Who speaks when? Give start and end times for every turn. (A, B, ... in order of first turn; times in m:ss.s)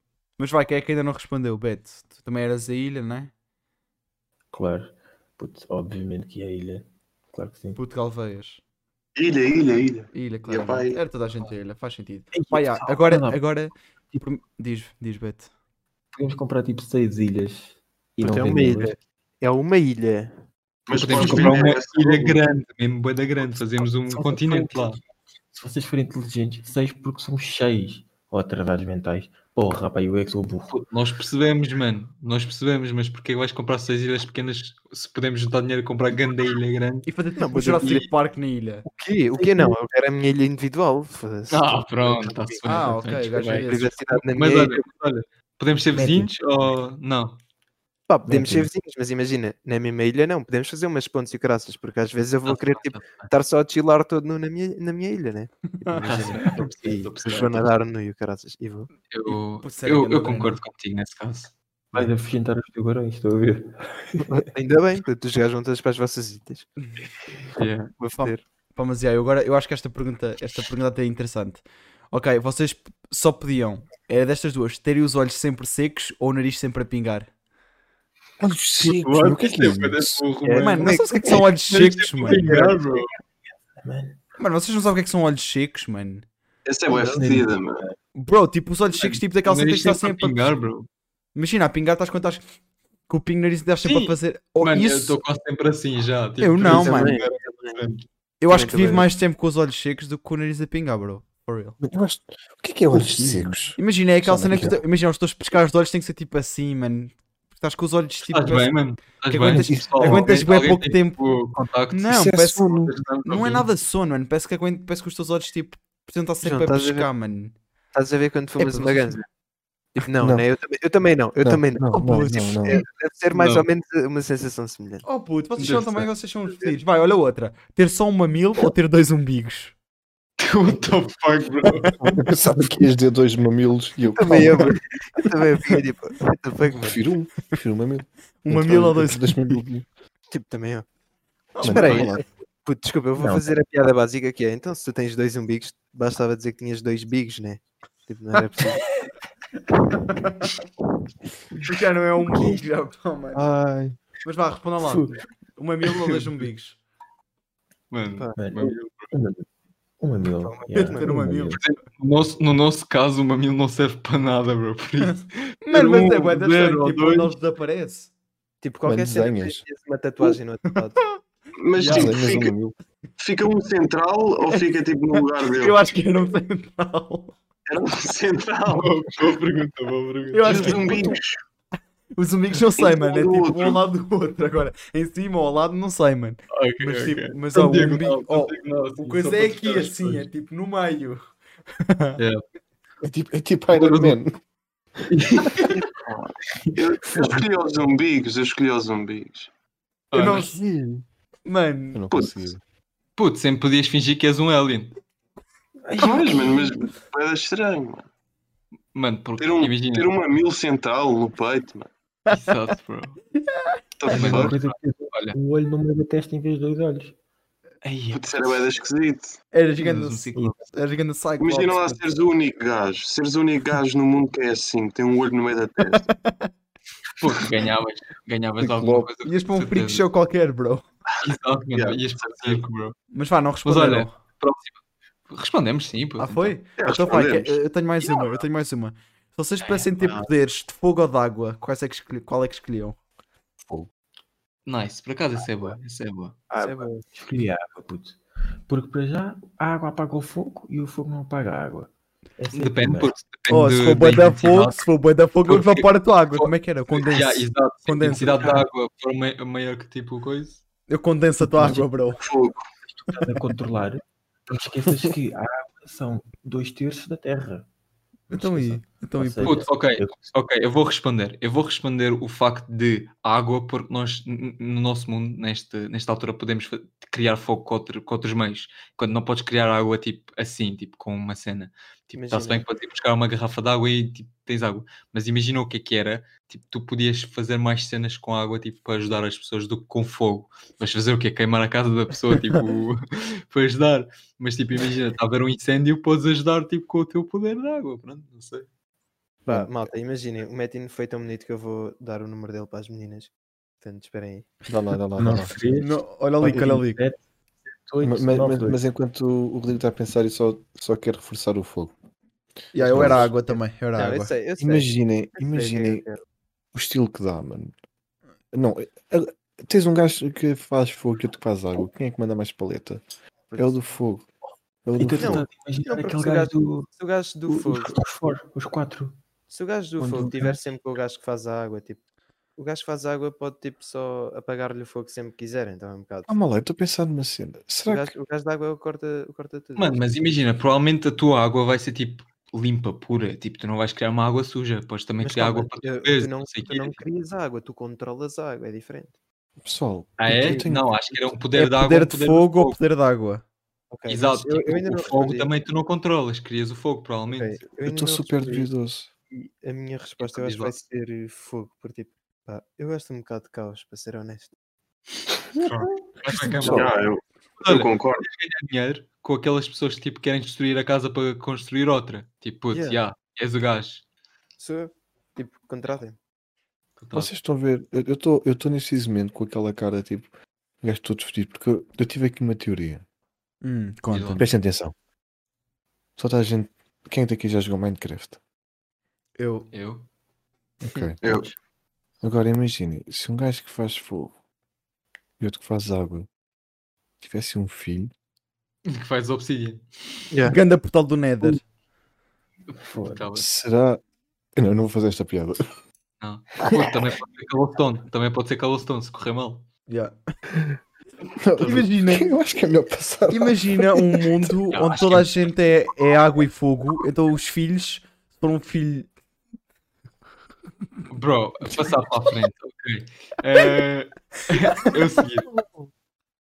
0:00.4-0:03.3 A
0:04.5-0:07.8 B
0:07.8-0:08.6 A
0:09.2-0:11.0 C
0:10.1-0:15.5 A
0:12.3-0:13.4 B
0:16.1-0:19.0 B
0:18.2-0:20.4 D
0:20.9-0:22.4 C
0:20.9-0:25.0 E
0:21.2-0:21.6 B
0:24.0-0:25.0 B
0:25.5-0:30.8 B
0:30.7-0:37.1 E
0:37.1-0:38.8 A
0:37.4-0:38.1 D
0:38.8-0:42.8 D
0:39.4-0:39.7 B
0:41.5-0:47.4 E
0:42.6-0:44.0 A
0:43.4-0:44.8 D
0:46.0-0:46.3 B
0:48.1-0:58.9 D
0:48.3-0:48.7 B
0:52.4-0:53.3 E
0:55.9-0:57.7 E
0:56.2-0:57.1 B
0:59.1-1:02.1 E
0:59.3-1:00.6 A
1:01.9-1:04.4 B
1:04.5-1:06.7 D
1:07.6-1:07.9 E
1:08.0-1:08.4 D
1:08.1-1:17.3 A
1:18.4-1:20.2 F
1:18.8-1:23.1 E
1:20.4-1:21.5 D
1:20.6-1:22.6 A
1:22.3-1:22.8 D
1:23.7-1:24.2 B
1:24.4-1:26.2 A
1:26.6-1:27.8 C
1:26.9-1:28.0 B
1:28.2-1:30.4 A
1:29.4-1:30.9 E
1:31.4-1:32.4 A
1:33.1-1:35.2 A
1:33.8-1:38.0 E
1:36.4-1:37.2 A
1:36.6-1:37.8 D
1:38.4-1:41.8 A
1:38.5-1:39.1 D
1:41.8-1:44.8 F
1:42.9-1:43.6 B
1:43.8-1:48.7 A
1:48.3-1:52.2 E
1:49.3-1:51.2 A
1:49.5-1:50.3 F
1:51.9-1:57.6 A
1:52.1-1:53.0 F
1:52.8-1:53.7 E
1:56.4-1:57.1 D
1:57.9-1:59.2 D
1:58.6-1:59.2 A
2:00.0-2:05.0 D
2:00.2-2:00.4 F
2:01.4-2:02.8 F
2:01.9-2:02.6 A
2:03.3-2:03.6 E
2:05.0-2:09.7 A
2:05.6-2:06.1 E
2:06.5-2:06.7 D
2:10.4-2:11.9 E
2:11.8-2:12.1 A
2:12.0-2:14.8 F
2:14.2-2:17.0 D
2:16.7-2:19.9 F
2:18.4-2:19.6 A
2:20.3-2:20.9 D
2:21.5-2:22.2 A
2:21.6-2:22.2 F
2:21.6-2:28.9 D
2:23.2-2:23.5 B
2:29.9-2:30.5 A
2:31.6-2:33.5 A
2:33.4-2:34.0 F
2:34.2-2:36.8 A
2:34.8-2:35.2 B
2:37.9-2:39.1 E
2:38.4-2:39.5 B
2:40.0-2:41.6 B
2:40.4-2:41.1 D
2:40.7-2:41.6 A
2:41.6-2:47.4 E
2:45.6-2:48.1 A
2:48.6-2:51.1 D
2:48.8-2:49.6 F
2:51.6-2:52.5 C
2:51.8-2:52.2 E
2:51.8-2:52.7 F
2:53.2-2:55.8 C
2:55.2-2:57.4 A
2:57.7-2:59.0 C
2:58.7-3:00.9 E
3:00.3-3:01.2 A
3:00.4-3:01.4 C
3:02.2-3:11.2 A
3:02.8-3:03.8 C
3:06.5-3:10.3 E
3:11.8-3:12.2 A
3:13.0-3:14.4 F
3:13.7-3:14.2 E
3:15.1-3:15.7 E
3:16.7-3:17.3 B
3:16.8-3:19.5 C
3:20.1-3:20.6 E
3:20.1-3:20.6 A
3:20.3-3:21.1 F
3:21.5-3:22.0 A
3:21.9-3:22.6 F
3:23.2-3:25.0 E
3:25.8-3:26.8 B
3:26.0-3:28.1 C
3:28.9-3:30.2 E
3:29.4-3:31.9 C
3:32.3-3:33.2 E
3:34.0-3:34.6 C
3:34.1-3:35.4 E
3:34.1-3:37.2 B
3:37.8-3:38.2 E
3:38.1-3:39.4 C
3:39.5-3:42.0 A
3:39.8-3:40.6 E
3:41.4-3:46.1 C
3:45.9-3:46.5 A
3:47.2-3:50.1 E
3:48.6-3:49.1 F
3:49.2-3:50.8 A
3:51.2-3:52.6 C
3:51.2-3:53.0 E
3:53.1-3:54.1 A
3:53.6-3:56.6 E
3:56.2-4:03.0 A
3:56.8-3:58.4 C
3:59.7-4:00.3 E
4:04.7-4:06.4 E
4:06.6-4:13.2 B
4:06.6-4:07.1 D
4:12.5-4:14.9 E
4:13.5-4:18.6 A
4:15.4-4:20.6 E
4:20.9-4:22.2 A
4:21.5-4:21.9 B
4:22.2-4:22.7 C
4:22.9-4:27.7 B
4:28.3-4:30.3 B
4:28.3-4:29.7 A
4:29.4-4:58.7 E
4:42.2-4:42.6 D
4:59.5-5:03.3 D
4:59.5-4:59.7 F
5:03.8-5:04.6 D
5:04.7-5:05.6 F
5:05.2-5:07.2 B
5:05.8-5:07.0 A
5:07.8-5:08.8 B
5:08.0-5:11.9 F
5:12.7-5:14.3 A
5:12.8-5:13.3 F
5:13.1-5:16.2 D
5:14.6-5:16.1 F
5:16.7-5:17.8 F
5:18.5-5:23.0 F
5:23.5-5:23.8 D
5:23.6-5:24.3 F
5:24.8-5:25.5 F
5:25.0-5:26.9 B
5:25.1-5:28.0 D
5:27.5-5:29.2 B
5:29.5-5:32.0 D
5:30.0-5:30.6 F
5:32.6-5:36.4 D
5:36.3-5:38.1 F
5:37.8-5:40.0 D
5:39.8-5:47.0 E
5:45.2-5:49.1 D
5:49.6-5:51.2 F
5:50.2-5:52.8 E
5:50.4-5:50.7 D
5:51.6-5:53.4 A
5:53.9-5:55.5 D
5:54.1-5:57.6 E
5:57.3-5:58.7 D
5:57.8-5:59.1 F
5:59.3-6:04.5 D
6:00.2-6:00.7 E
6:05.6-6:07.0 E
6:06.5-6:06.9 F
6:06.7-6:08.3 C
6:07.6-6:14.0 E
6:12.7-6:13.0 D
6:14.6-6:16.2 D
6:17.0-6:17.3 E
6:17.1-6:20.3 F
6:20.8-6:23.0 F
6:23.6-6:24.5 A
6:24.1-6:24.5 E
6:24.4-6:24.9 F
6:26.2-6:28.4 F
6:29.4-6:29.7 A
6:29.7-6:30.1 E
6:30.8-6:31.2 F
6:31.2-6:31.5 C
6:32.2-6:34.3 F
6:35.4-6:36.3 F
6:37.2-6:38.1 F
6:38.9-6:39.9 E
6:40.3-6:40.6 D
6:40.5-6:41.6 A
6:42.7-6:43.5 E
6:42.8-6:43.3 B
6:43.4-6:44.0 F
6:44.6-6:45.6 F
6:46.2-6:49.7 E
6:49.9-6:50.2 A
6:51.4-6:54.5 F
6:51.6-6:52.3 A
6:53.3-6:59.1 A
6:54.7-6:55.5 E
7:01.1-7:05.5 E
7:04.5-7:04.9 A